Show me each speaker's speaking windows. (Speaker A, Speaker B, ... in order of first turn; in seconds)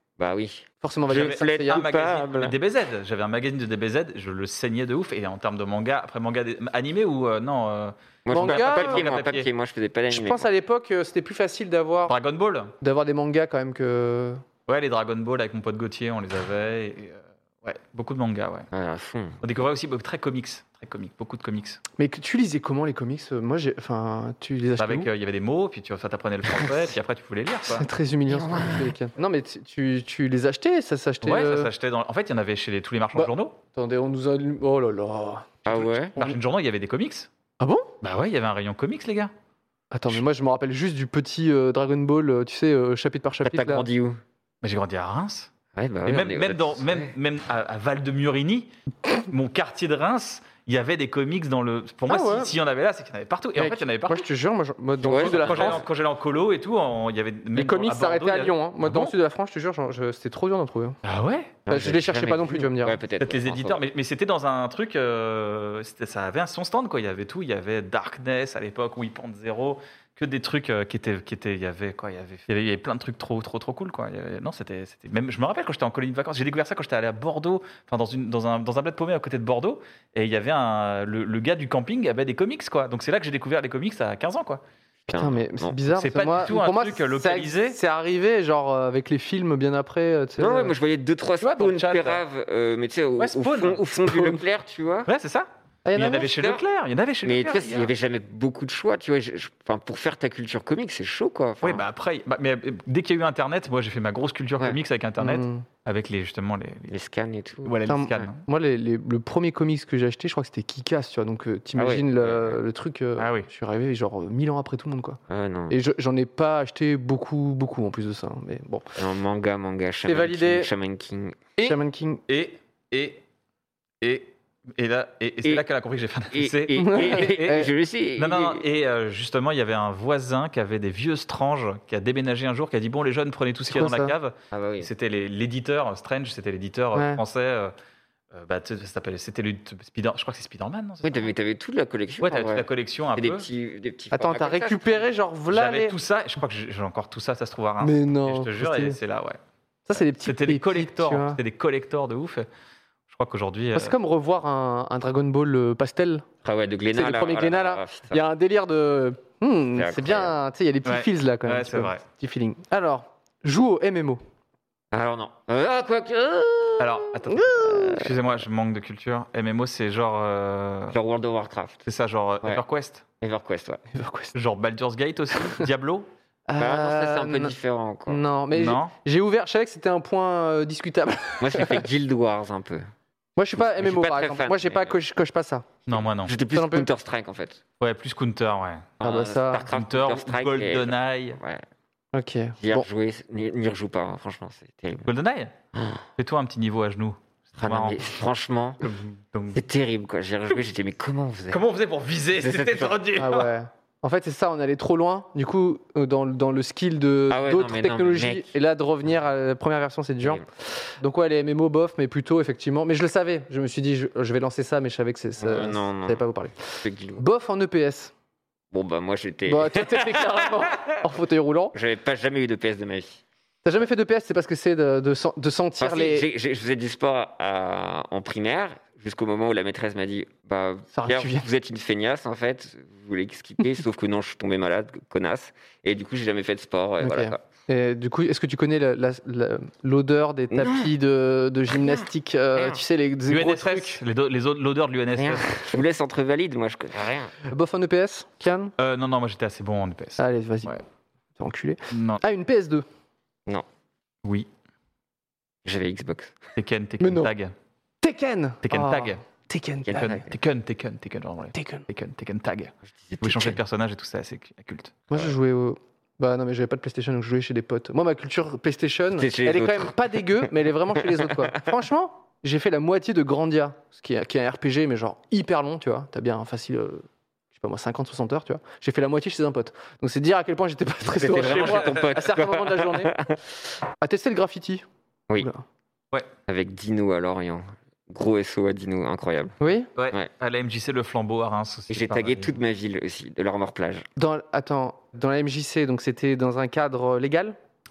Speaker A: 0.2-2.6, 8.2-10.5, 18.7-19.4, 28.3-28.9, 35.6-36.2, 43.4-44.2, 45.8-47.1, 55.0-55.9, 61.7-63.8, 85.1-85.8, 90.4-95.1, 96.1-96.6, 97.2-101.8, 106.9-108.3, 111.8-112.6, 115.3-115.8, 119.0-121.5, 126.3-128.6, 134.5-134.9, 141.0-142.7, 143.2-145.1, 156.4-158.2, 159.8-160.4, 164.9-167.0, 167.6-168.2, 170.9-171.8, 173.2-173.8, 176.6-178.2, 181.4-182.9, 183.6-185.0, 185.9-187.6, 189.0-191.6, 192.6-195.1, 195.7-196.1, 197.6-198.8, 199.5-201.6, 202.4-203.0, 207.3-208.5, 215.4-217.2, 218.7-220.8, 221.7-223.2, 225.8-237.4, 240.5-240.9, 241.7-242.8, 245.2-247.3, 255.7-256.4, 259.9-260.3, 262.9-263.6, 269.2-271.5, 281.2-283.4, 286.5-289.6, 291.9-294.1
Speaker B: 0.8-1.9, 8.3-9.0, 10.1-12.2, 12.8-14.4, 22.0-25.1, 27.7-31.7, 33.1-35.5, 37.6-37.9, 39.9-43.9, 52.1-52.5, 53.6-55.8, 57.5-61.0, 61.7-63.0, 85.1-90.7, 95.9-96.3, 105.2-105.7, 107.9-115.2, 115.7-119.0, 120.1-120.7, 121.6-122.2, 126.8-127.7, 133.7-134.1, 136.9-137.2, 144.1-146.0, 147.8-149.0, 149.9-151.4, 153.7-156.2, 156.9-164.2, 167.5-167.7, 173.9-174.3, 176.5-177.6, 178.1-181.8, 183.4-185.7, 186.5-186.9, 189.0-189.7, 192.1-192.9, 203.2-218.1, 219.5-221.8, 223.7-226.3, 230.9-231.5, 237.0-244.0, 247.5-248.7, 250.2-250.7, 251.4-252.8, 257.0-257.3, 258.0-260.1, 261.5-261.8, 265.1-283.1, 284.0-284.9, 285.4-285.6, 289.6-289.9, 294.2-297.6
Speaker C: 1.1-9.5, 12.1-12.7, 14.7-18.7, 19.4-21.8, 24.8-27.9, 31.2-33.6, 35.7-37.3, 38.0-39.3, 44.6-45.5, 46.1-54.3, 55.2-59.1, 61.0-62.7, 63.2-84.6, 85.9-87.8, 91.4-92.2, 93.2-93.8, 95.1-97.9, 101.6-106.9, 107.6-108.4, 113.2-113.5, 121.6-123.2, 124.0-137.7, 138.3-141.3, 142.2-143.5, 145.5-149.4, 150.0-152.5, 153.1-153.9, 160.8-162.0, 166.8-171.0, 171.8-173.0, 174.3-176.1, 178.5-178.9, 185.9-186.3, 187.8-189.0, 189.7-191.4, 195.1-195.5, 196.2-198.1, 198.8-199.6, 201.5-203.5, 243.3-245.5, 248.8-250.8, 251.9-252.2, 256.6-257.5, 258.6-259.2, 259.9-265.2, 281.4-282.1, 290.0-292.5